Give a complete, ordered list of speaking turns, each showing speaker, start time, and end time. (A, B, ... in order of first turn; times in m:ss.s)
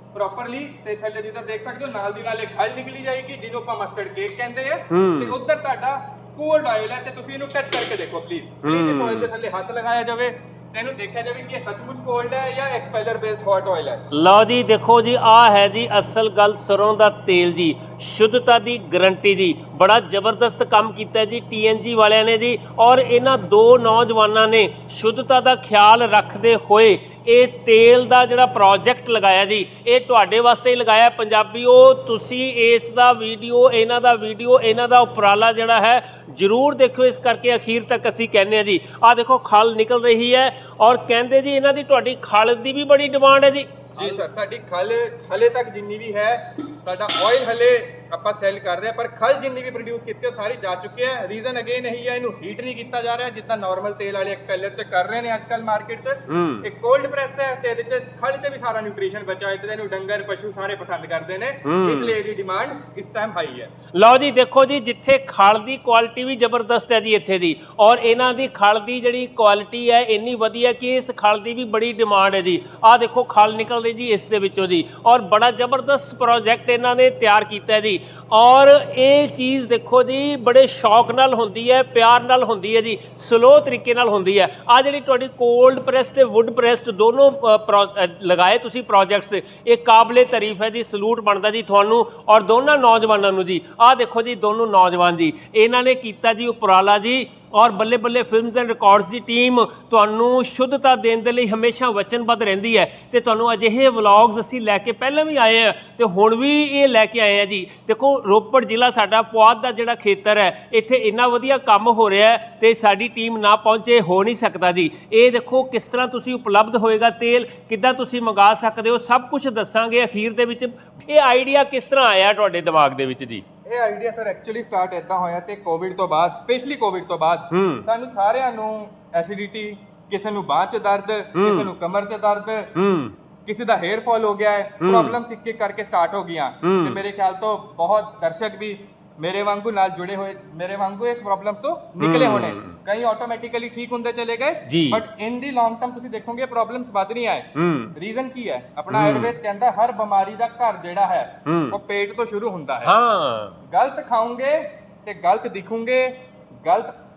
0:00.1-0:14.0 A
0:04.9-0:05.4 B
0:08.6-0:09.3 B
0:14.1-0:44.2 B
0:44.0-1:03.7 A
0:56.3-0:56.7 B
1:01.6-1:02.1 B
1:04.0-2:03.4 B
2:03.7-2:12.7 A
2:07.5-2:07.9 B
2:11.4-2:11.7 B
2:12.8-2:13.2 B
2:13.5-2:32.9 A
2:14.8-2:15.2 B
2:16.6-2:17.0 B
2:22.0-2:22.8 B
2:24.7-2:25.0 B
2:27.6-2:27.9 B
2:28.9-2:29.3 B
2:31.5-2:31.8 B
2:32.8-2:33.6 B
2:33.7-2:36.9 A